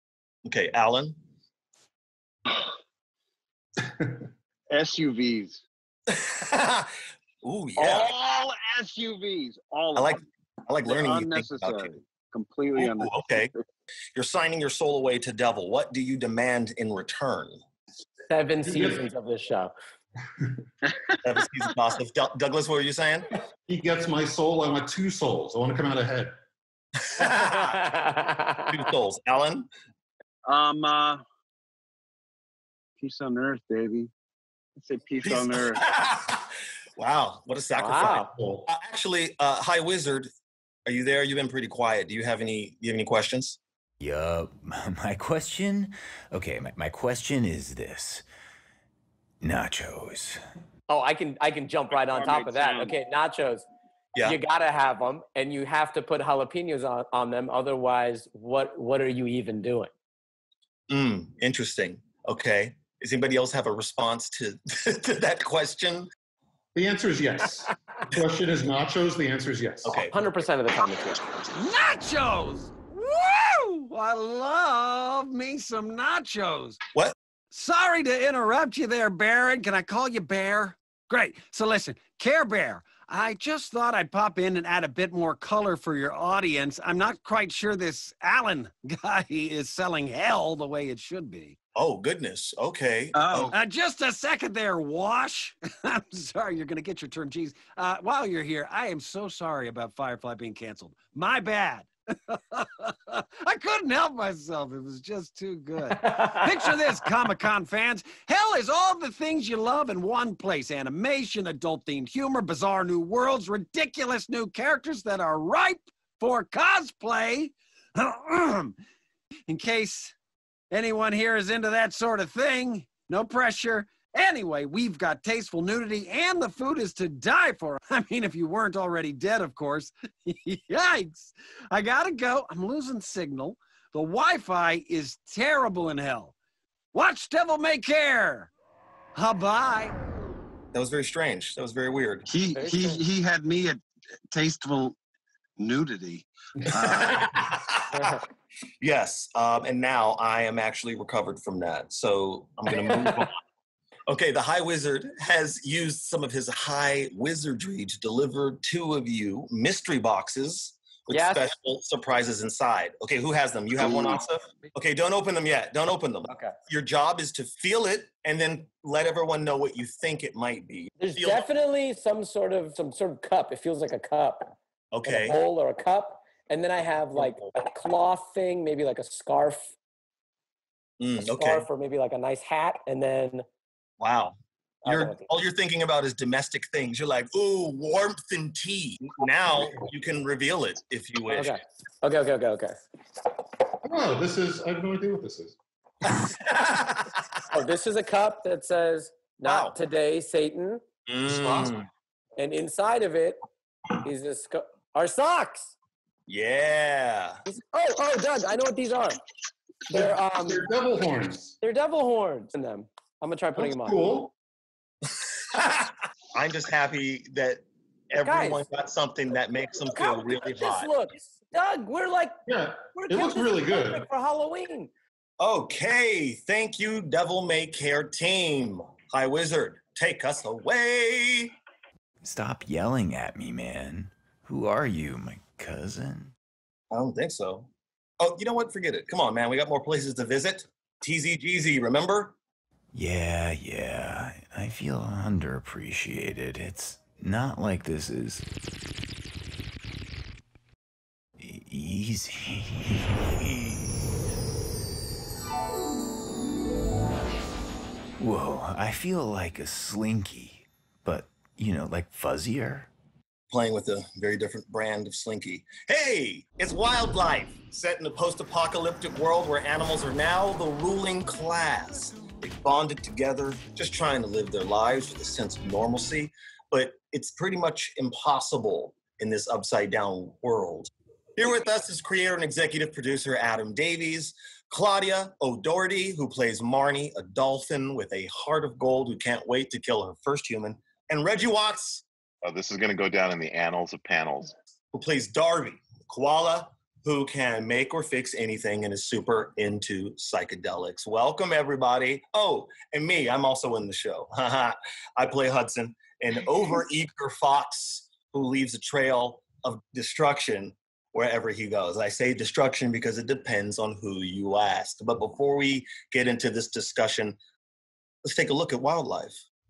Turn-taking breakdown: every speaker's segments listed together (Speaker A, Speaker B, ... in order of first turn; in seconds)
Speaker A: 0.4-1.2, 6.1-6.9, 7.4-8.1, 9.9-12.0, 12.8-13.5, 14.1-17.6, 21.2-23.2, 27.2-27.8, 28.7-29.7, 35.2-36.4, 37.0-40.3, 40.9-43.6, 60.9-66.1, 69.8-70.1, 91.8-93.5, 140.7-142.3, 146.8-148.1, 148.8-153.3, 154.1-171.4, 174.9-175.4, 177.1-177.5, 181.0-181.7, 184.0-191.6, 196.3-197.1, 199.4-199.8, 201.1-201.9, 206.3-207.4, 215.5-220.9, 225.4-231.5, 236.9-237.7, 238.2-242.3, 263.5-292.0, 294.9-317.4, 318.2-319.4
Speaker B: 3.8-4.2, 18.6-19.0, 23.7-26.3, 38.4-38.6, 66.8-69.9, 193.8-195.5, 201.3-201.7, 209.9-211.5, 213.6-214.3, 222.5-224.0
Speaker C: 4.7-5.6, 7.8-10.2, 10.8-13.2, 30.4-31.2, 33.0-34.1, 34.8-35.8, 51.9-53.0, 93.2-93.5, 142.3-143.8, 144.3-144.9, 145.6-146.2, 146.8-147.1
Speaker D: 18.3-19.7, 27.2-28.7, 37.8-38.3, 50.9-53.6, 54.2-59.9, 70.1-71.2, 106.0-106.4, 142.5-143.0, 161.1-161.5, 163.9-164.1, 171.0-174.5, 175.1-179.8, 181.3-183.4, 184.8-185.2, 191.3-192.8, 197.5-200.8, 202.4-203.4, 204.0-205.7, 207.4-209.2, 209.9-210.7, 211.6-214.2, 218.2-218.6, 219.8-222.3, 222.9-224.9
Speaker E: 44.0-48.2, 49.4-50.4, 232.2-236.3, 242.9-248.4, 251.4-254.1, 258.2-262.9
Speaker F: 71.5-76.8, 77.5-91.5, 93.3-118.8, 119.5-120.1, 120.7-136.3, 136.9-138.5, 139.1-139.9
Speaker G: 292.4-294.5